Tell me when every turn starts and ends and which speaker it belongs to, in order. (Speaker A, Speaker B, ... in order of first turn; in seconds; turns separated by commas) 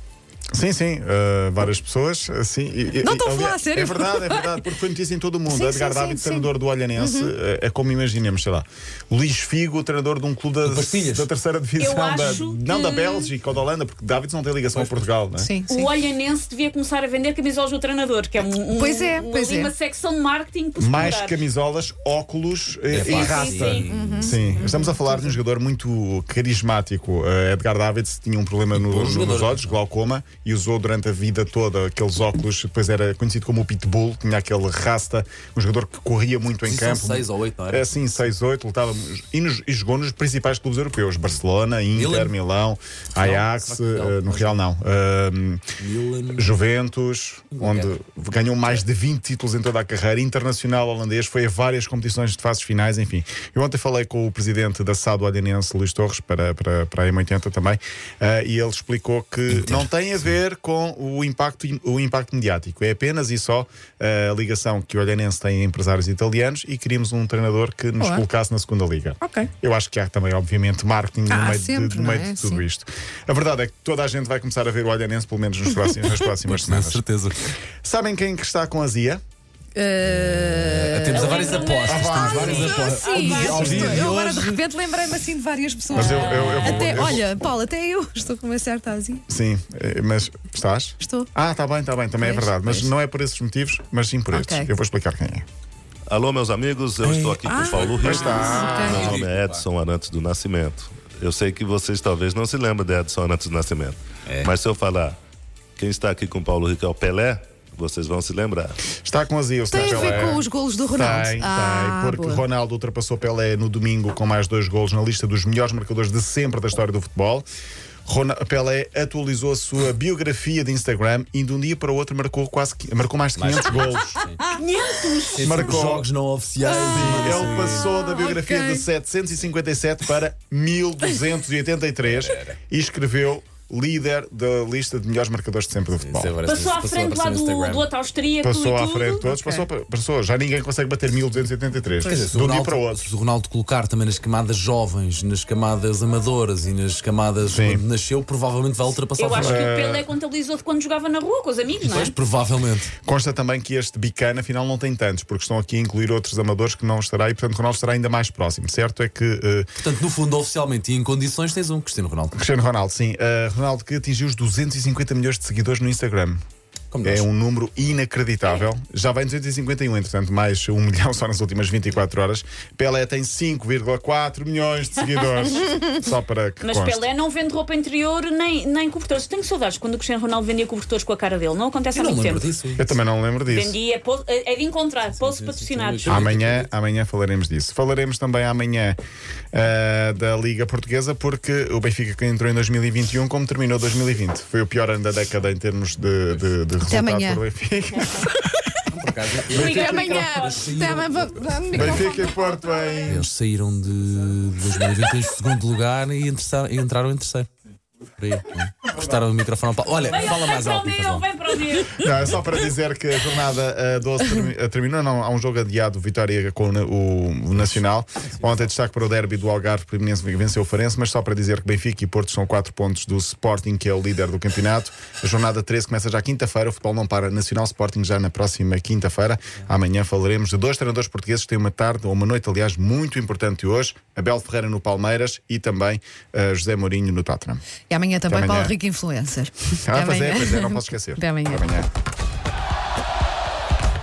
Speaker A: 0.5-15.5, Speaker B: 3.0-4.6, Speaker B: 5.5-7.3, Speaker C: 10.6-11.3, Speaker D: 11.8-13.3, Speaker C: 11.9-12.4, Speaker C: 14.7-15.1, Speaker B: 15.4-15.9, Speaker D: 15.7-21.4, Speaker B: 18.7-19.7, Speaker A: 20.8-45.6, Speaker C: 22.9-24.7, Speaker D: 23.0-23.9, Speaker B: 23.9-25.4, Speaker C: 28.7-29.8, Speaker C: 36.6-38.3, Speaker C: 41.9-42.3, Speaker C: 43.2-44.5, Speaker C: 45.8-46.6, Speaker A: 46.4-77.0, Speaker C: 47.5-48.0, Speaker C: 59.5-59.9, Speaker B: 68.0-68.2, Speaker B: 69.2-69.5, Speaker B: 71.3-72.6, Speaker C: 76.4-77.5, Speaker A: 77.8-79.2, Speaker B: 79.8-89.2, Speaker C: 80.2-84.6, Speaker D: 81.1-83.9, Speaker A: 81.8-82.8, Speaker A: 83.5-84.0, Speaker D: 85.9-87.1, Speaker A: 86.0-87.3, Speaker C: 86.2-87.1, Speaker A: 89.3-95.5, Speaker B: 91.0-91.3, Speaker B: 92.2-92.5, Speaker C: 92.6-92.9, Speaker B: 94.3-94.7, Speaker E: 96.1-105.2, Speaker C: 97.0-99.6, Speaker B: 97.4-99.1, Speaker A: 97.9-99.2, Speaker C: 104.3-104.5, Speaker E: 105.8-108.8, Speaker A: 109.0-117.5, Speaker B: 109.7-112.4, Speaker A: 118.0-124.2, Speaker C: 123.4-124.5, Speaker D: 124.5-125.7, Speaker C: 125.3-127.9, Speaker A: 125.4-126.1, Speaker B: 126.7-128.8, Speaker A: 126.9-136.3, Speaker C: 132.0-132.6, Speaker C: 136.0-137.9, Speaker D: 136.5-139.3, Speaker A: 138.4-143.1, Speaker C: 142.0-149.7, Speaker A: 147.5-147.8, Speaker D: 149.2-152.1, Speaker A: 149.4-150.1, Speaker C: 151.8-152.9, Speaker A: 153.1-159.7, Speaker C: 159.8-162.3, Speaker A: 162.3-166.4, Speaker C: 166.9-167.3, Speaker A: 167.0-177.1, Speaker D: 176.6-182.5, Speaker C: 181.9-182.9, Speaker A: 182.8-183.8, Speaker D: 183.5-186.2, Speaker C: 185.2-186.7, Speaker A: 186.1-189.0, Speaker A: 189.5-198.3, Speaker C: 196.3-196.6, Speaker B: 196.9-197.4, Speaker C: 198.9-202.1, Speaker D: 199.5-200.7, Speaker B: 199.6-202.4, Speaker A: 201.7-203.3, Speaker C: 203.1-207.5, Speaker C: 208.2-211.3, Speaker D: 210.1-212.0, Speaker A: 212.0-237.6, Speaker B: 237.9-241.8, Speaker A: 238.3-238.8, Speaker A: 239.8-241.9